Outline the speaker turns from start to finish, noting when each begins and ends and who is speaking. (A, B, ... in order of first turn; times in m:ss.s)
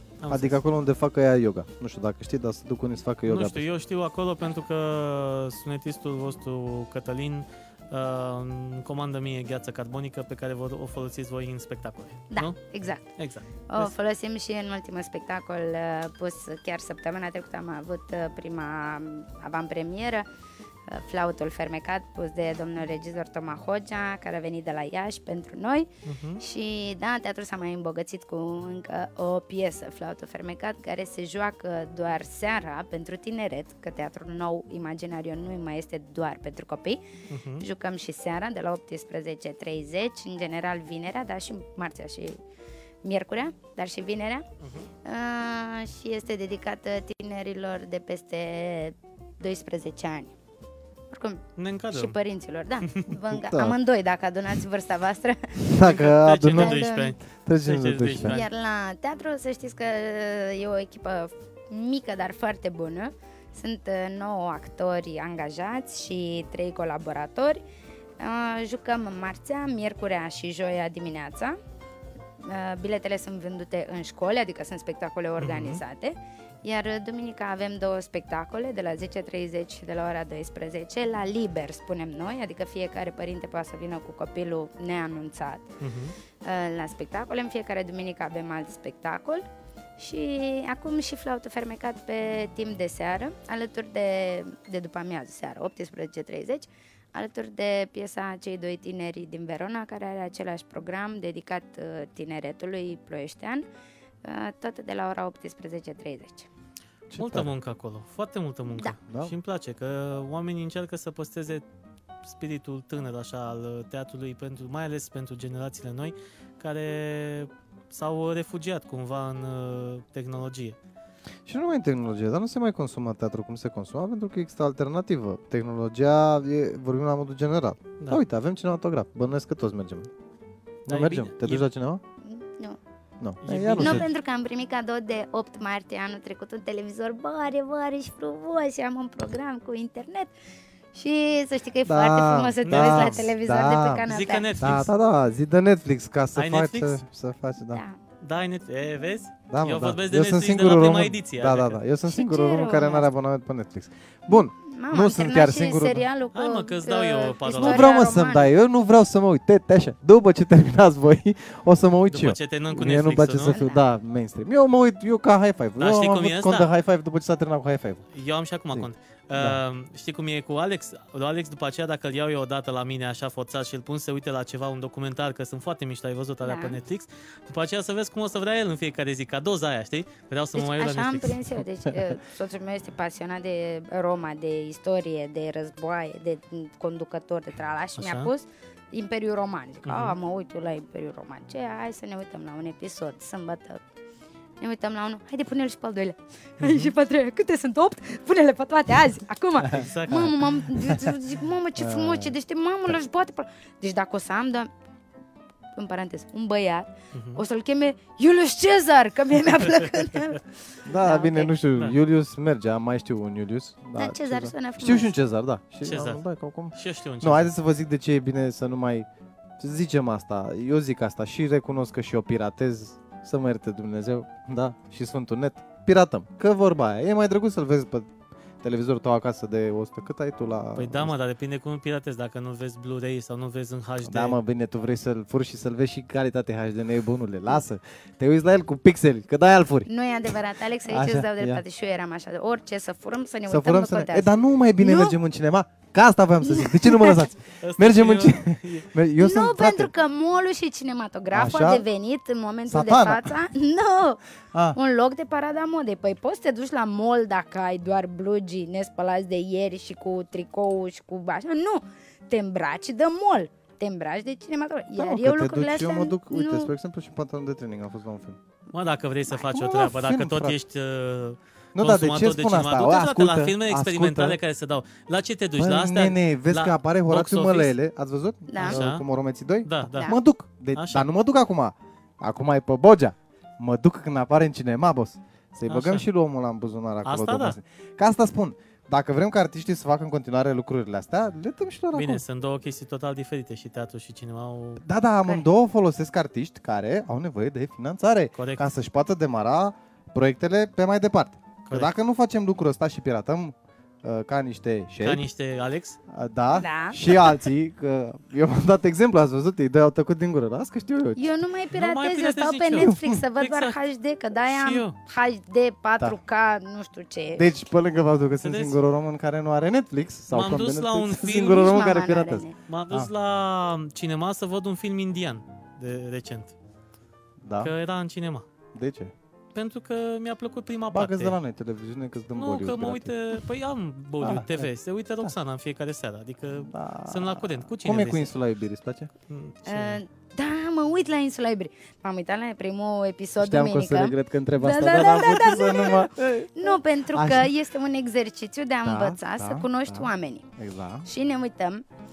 0:00.2-0:00.6 A
0:00.3-0:03.7 B
0:03.3-0:12.6 A
0:12.3-0:13.2 C
0:13.2-0:13.9 A
0:13.7-0:20.3 C
0:20.9-0:37.0 C
0:26.1-0:26.4 A
0:37.3-0:37.7 A
0:37.6-0:42.4 C
0:43.0-0:44.5 C
0:44.6-0:44.9 A
0:45.0-0:50.3 C
0:51.1-0:57.2 C
0:51.6-0:52.2 A
0:53.5-0:53.8 B
0:55.6-0:56.8 B
0:55.9-0:58.5 A
0:57.4-0:58.4 B
0:58.2-1:07.6 C
1:08.2-1:11.6 C
1:12.4-1:25.7 C
1:15.4-1:15.8 A
1:25.8-1:26.1 A
1:26.4-1:29.4 C
1:30.0-1:43.7 C
1:44.2-1:46.5 C
1:47.1-1:47.5 B
1:47.2-1:51.6 A
1:49.0-1:49.3 B
1:52.2-2:00.8 A
2:01.5-2:10.1 B
2:10.9-2:12.0 B
2:10.9-2:11.7 A
2:12.2-2:12.8 C
2:13.2-2:14.1 B
2:13.4-2:14.1 A
2:13.8-2:20.3 C
2:20.9-2:24.6 C
2:21.8-2:24.1 B
2:22.7-2:23.3 A
2:24.0-2:24.9 A
2:24.6-2:27.8 B
2:26.4-2:27.0 A
2:27.7-2:28.0 C
2:28.2-2:31.8 A
2:29.5-2:36.1 B
2:32.1-2:33.1 C
2:34.3-2:38.5 C
2:36.3-2:37.9 A
2:37.6-2:48.0 B
2:42.1-2:43.6 A
2:43.5-2:43.8 C
2:45.8-2:46.7 A
2:48.1-3:01.4 A
2:48.7-2:49.6 B
2:56.4-2:56.8 C
3:00.6-3:13.8 C
3:08.0-3:08.3 A
3:09.8-3:10.2 A
3:14.6-3:24.7 C
3:16.6-3:16.9 A
3:19.7-3:20.4 A
3:20.8-3:21.2 B
3:21.8-3:22.3 B
3:25.8-3:31.5 C
3:27.2-3:27.4 A
3:30.9-3:39.1 B
3:34.0-3:35.2 C
3:35.8-3:36.2 A
3:36.7-3:37.5 A
3:39.6-3:48.1 B
3:48.6-3:51.1 B
3:50.8-3:54.4 A
3:54.0-3:59.9 B
3:59.9-4:05.2 C
4:00.9-4:01.6 B
4:03.5-4:09.9 B
4:06.4-4:07.2 C
4:07.6-4:08.9 A
4:09.2-4:14.2 C
4:11.3-4:11.9 B
4:12.7-4:13.3 B
4:14.7-4:26.7 C
4:25.0-4:28.4 B
4:28.7-4:37.8 A
4:29.3-4:30.6 B
4:31.8-4:34.4 B
4:35.6-4:52.2 B
4:38.5-4:38.8 C
4:38.6-4:39.0 A
4:39.6-4:40.1 A
4:40.8-4:41.1 A
4:45.7-4:46.1 A
4:47.0-4:47.6 A
4:51.9-4:54.8 A
4:54.8-5:05.2 B
4:58.4-4:58.6 A
5:01.7-5:01.9 A
5:05.0-5:06.0 A
5:06.1-5:11.3 B
5:06.5-5:07.3 C
5:11.2-5:17.5 C
5:11.8-5:13.8 A
5:12.8-5:13.2 B
5:14.4-5:15.0 A
5:17.4-5:23.1 B
5:18.4-5:18.8 A
5:20.3-5:21.7 A
5:21.3-5:22.6 C
5:22.7-5:26.6 A
5:27.4-5:27.7 B
5:27.6-5:28.5 A
5:28.7-5:29.1 B
5:29.5-5:31.4 A
5:30.9-5:33.1 B
5:32.4-5:38.3 A
5:34.2-5:34.7 B
5:36.6-5:39.1 B
5:39.3-5:40.0 A
5:39.7-5:50.5 C
5:43.4-5:47.5 B
5:48.8-5:51.1 B
5:51.1-5:51.8 C